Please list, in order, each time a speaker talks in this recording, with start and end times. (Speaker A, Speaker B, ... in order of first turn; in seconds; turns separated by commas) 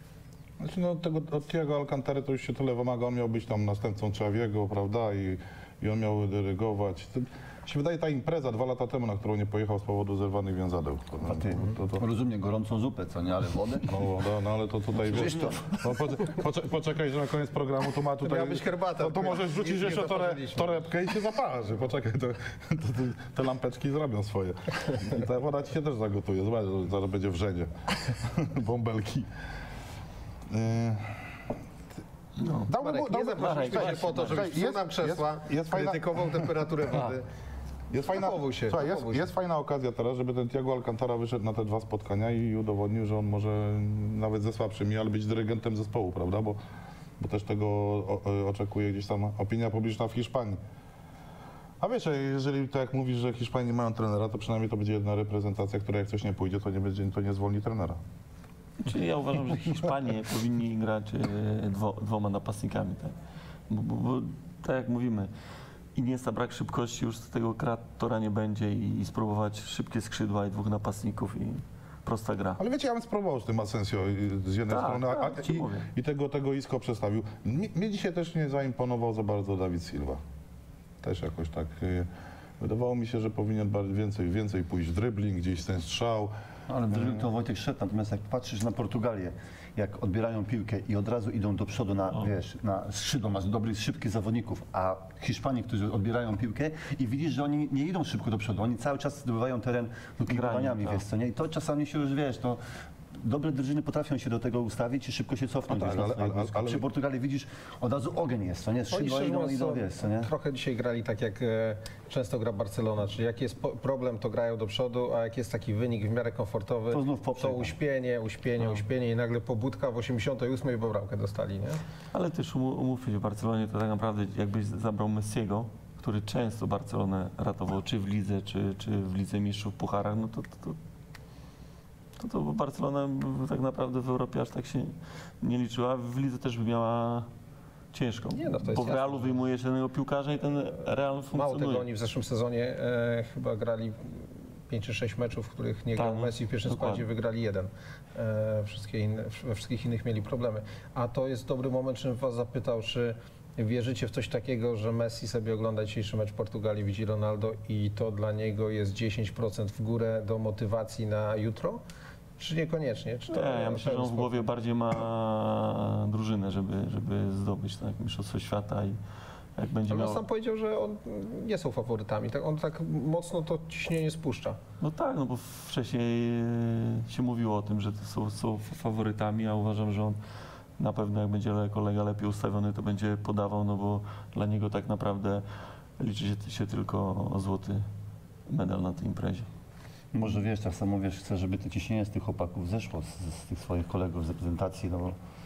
Speaker A: 0.6-12.0, Speaker B: 11.2-14.0, Speaker A: 13.9-29.3, Speaker B: 14.9-16.4, Speaker C: 15.1-15.5, Speaker D: 18.2-20.9, Speaker A: 30.5-31.2, Speaker C: 32.4-32.7, Speaker A: 32.7-36.9, Speaker D: 32.8-37.2, Speaker C: 33.3-34.5, Speaker A: 37.9-46.6, Speaker D: 38.1-39.3, Speaker A: 47.2-50.6, Speaker A: 51.8-58.0, Speaker C: 58.8-63.1, Speaker C: 63.7-65.3, Speaker C: 65.9-72.6, Speaker A: 72.6-80.2, Speaker C: 74.7-75.9, Speaker A: 81.0-82.1, Speaker A: 82.6-86.3, Speaker B: 86.7-102.6, Speaker A: 86.9-87.2, Speaker C: 100.2-101.0, Speaker B: 103.2-110.3, Speaker A: 105.7-106.8, Speaker D: 108.9-121.8, Speaker B: 116.9-117.7, Speaker C: 122.1-130.8, Speaker C: 132.2-137.3, Speaker C: 137.9-141.8, Speaker D: 138.3-139.3, Speaker D: 141.3-161.8, Speaker C: 145.9-147.0, Speaker D: 162.4-164.3, Speaker C: 163.3-169.0, Speaker C: 169.6-170.2, Speaker D: 169.9-174.6, Speaker C: 174.8-180.2, Speaker C: 180.8-185.4, Speaker C: 186.0-187.8, Speaker C: 188.5-189.5, Speaker B: 190.1-195.2